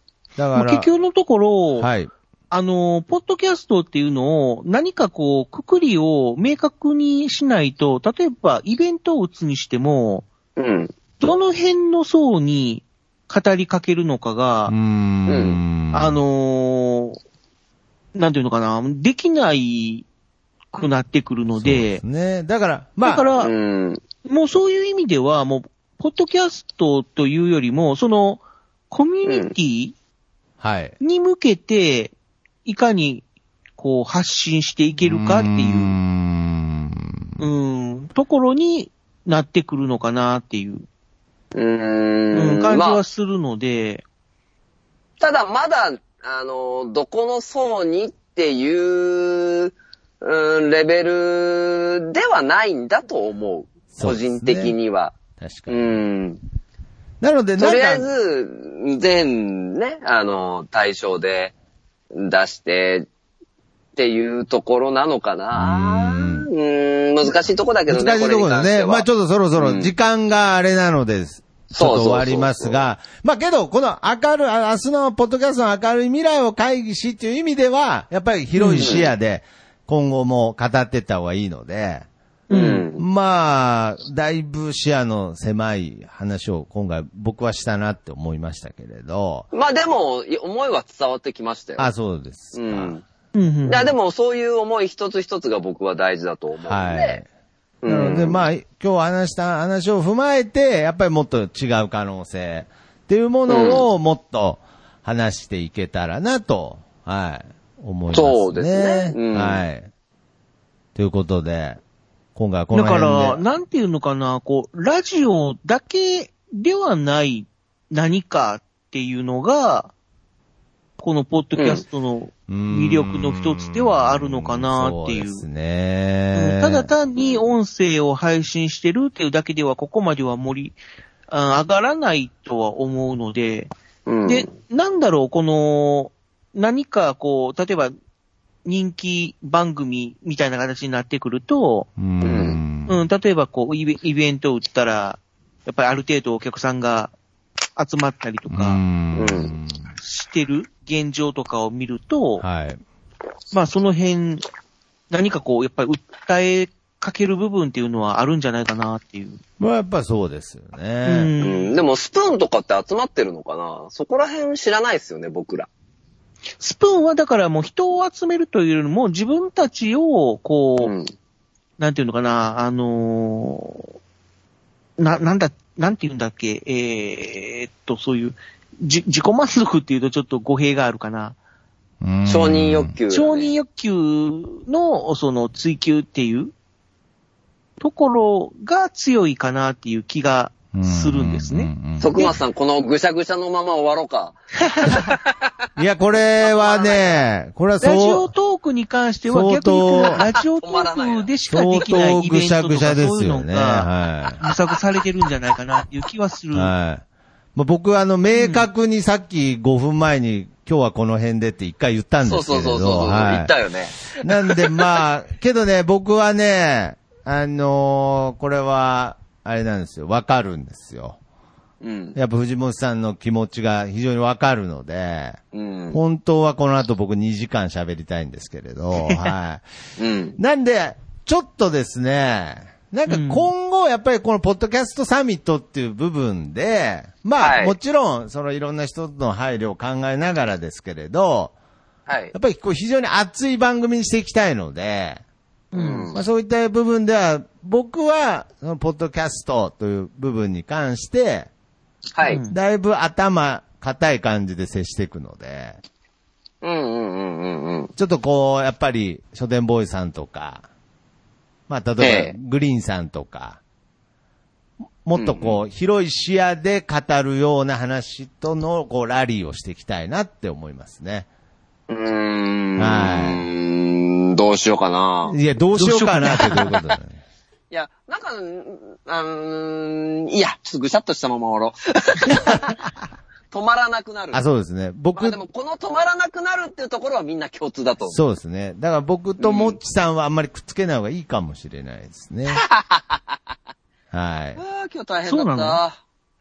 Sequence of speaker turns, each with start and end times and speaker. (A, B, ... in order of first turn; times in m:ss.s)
0:00.4-0:00.9 A
0:00.5-0:01.9 B
0:01.8-0:02.1 A
0:02.5-0:10.3 B
0:10.6-0:10.9 C
0:11.2-0:14.8 B
0:14.7-0:16.2 A
0:15.3-0:15.6 C
0:15.9-0:17.2 B
0:18.2-0:20.1 B
0:20.7-0:22.0 B
0:21.6-0:23.3 A
0:23.0-0:23.5 B
0:23.4-0:24.0 C
0:24.2-0:30.0 B
0:29.2-0:29.5 C
0:30.6-0:31.0 A
0:31.0-0:32.1 B
0:32.6-0:33.2 B
0:33.8-0:36.0 B
0:35.0-0:37.4 A
0:37.4-0:40.8 B
0:41.5-0:43.0 C
0:42.3-0:44.0 B
0:45.2-0:55.2 C
0:53.9-0:54.7 A
0:55.4-0:56.0 A
0:55.7-0:56.4 C
0:57.2-0:58.1 A
0:57.6-1:01.5 C
1:02.1-1:03.1 C
1:04.0-1:09.9 C
1:05.5-1:06.5 A
1:07.9-1:22.1 A
1:11.7-1:12.7 C
1:18.6-1:18.9 B
1:18.8-1:19.1 C
1:22.5-1:22.8 B
1:22.5-1:23.0 C
1:23.0-1:29.5 A
1:29.5-1:31.9 C
1:31.8-1:32.9 A
1:32.5-1:33.0 C
1:33.4-1:33.9 B
1:33.7-1:37.2 C
1:36.6-1:37.3 A
1:37.8-1:38.4 C
1:37.9-1:49.9 A
1:43.5-1:43.8 C
1:48.1-1:49.6 C
1:51.0-1:51.8 A
1:52.4-1:53.4 A
1:52.7-1:59.9 B
2:01.0-2:05.4 B
2:01.6-2:01.8 C
2:02.5-2:06.9 A
2:06.3-2:13.7 B
2:14.1-2:14.5 C
2:14.2-2:17.9 B
2:18.6-2:21.9 B
2:22.0-2:23.0 A
2:22.2-2:22.6 C
2:22.9-2:27.1 B
2:27.8-2:28.8 B
2:28.5-2:30.0 A
2:29.1-2:29.6 C
2:30.0-2:32.4 B
2:32.4-2:32.8 A
2:33.5-2:34.4 B
2:35.1-2:39.4 B
2:39.6-2:41.3 A
2:41.0-2:41.8 B
2:41.4-2:45.7 C
2:46.6-2:50.9 B
2:50.8-2:51.1 C
2:51.8-2:53.9 B
2:55.0-3:01.4 B
3:02.0-3:03.0 A
3:02.3-3:03.5 C
3:03.1-3:06.5 B
3:07.8-3:12.3 B
3:10.7-3:12.3 A
3:12.0-3:15.0 C
3:14.6-3:15.2 B
3:15.8-3:18.3 A
3:16.4-3:17.2 C
3:17.8-3:26.7 B
3:19.3-3:20.2 A
3:20.0-3:21.3 C
3:21.5-3:24.4 A
3:26.5-3:33.5 A
3:28.3-3:28.7 B
3:32.2-3:34.9 C
3:34.2-3:41.2 A
3:41.8-3:42.2 C
3:42.2-3:45.4 A
3:45.5-3:46.0 C
3:45.9-3:49.6 A
3:50.0-3:50.4 C
3:50.4-4:01.5 A
3:53.1-3:53.5 B
3:57.4-3:57.8 C
4:02.1-4:02.3 C
4:02.3-4:05.2 A
4:05.7-4:06.1 B
4:05.7-4:06.2 C
4:06.2-4:11.5 A
4:12.2-4:12.4 C
4:12.2-4:12.6 B
4:12.5-4:15.8 A
4:16.6-4:17.9 C
4:18.0-4:20.7 A
4:21.7-4:23.6 A
4:22.0-4:22.4 C
4:25.0-4:31.3 A
4:25.2-4:25.6 C
4:31.9-4:35.4 C
4:32.8-4:33.4 A
4:35.3-4:37.2 A
4:35.8-4:36.7 B
4:37.7-4:42.8 C
4:42.3-4:42.7 A
4:43.5-4:44.4 C
4:44.3-4:45.4 A
4:45.2-4:48.2 C
4:48.1-4:52.6 A
4:49.4-4:49.8 C
4:52.5-4:53.2 C
4:54.1-4:54.6 A
4:54.6-4:56.0 C
4:55.3-4:55.8 B